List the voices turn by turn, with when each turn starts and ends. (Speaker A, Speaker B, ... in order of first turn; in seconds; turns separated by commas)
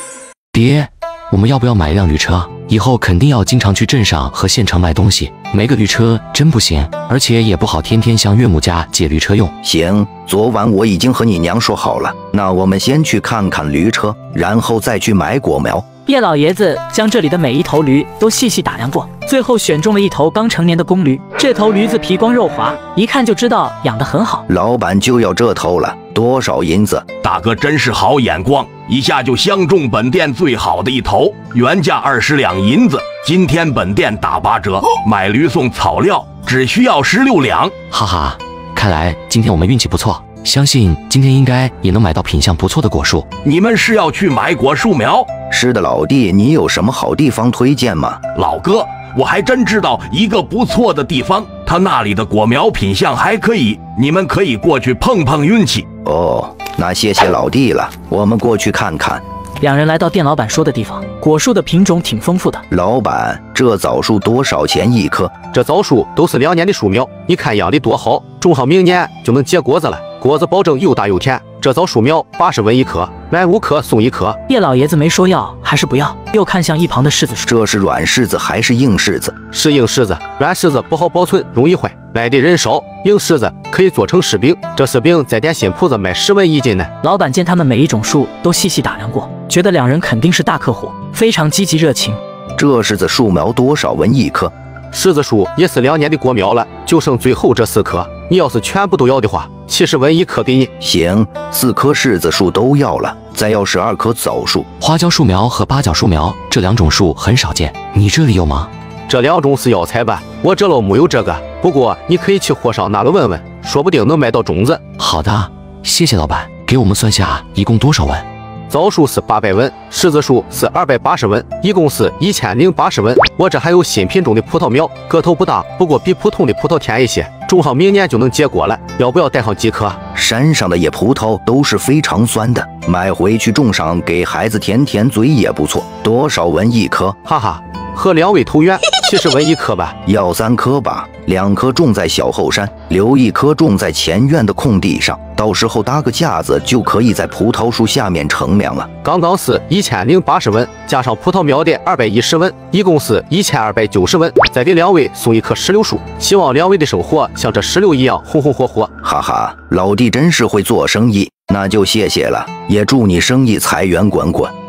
Speaker A: 0.5-9.5, Speaker B: 9.6-15.9, Speaker C: 16.1-24.4, Speaker B: 24.5-27.1, Speaker D: 27.2-37.8, Speaker A: 37.9-43.3, Speaker D: 43.4-45.3, Speaker B: 45.5-48.2, Speaker D: 48.4-55.9, Speaker B: 56.0-59.2, Speaker C: 59.6-62.6, Speaker B: 62.7-65.4, Speaker E: 65.5-74.4, Speaker C: 74.5-77.5, Speaker B: 77.5-79.4, Speaker E: 79.5-86.9, Speaker C: 87.0-92.2, Speaker B: 92.6-94.5, Speaker E: 94.9-100.7, Speaker B: 100.8-104.7, Speaker A: 104.8-108.7, Speaker E: 109.1-114.9, Speaker A: 115.0-118.2, Speaker E: 118.7-130.0, Speaker B: 130.2-137.2, Speaker E: 137.2-139.9, Speaker B: 140.1-148.9, Speaker E: 149.0-158.9, Speaker B: 159.0-164.5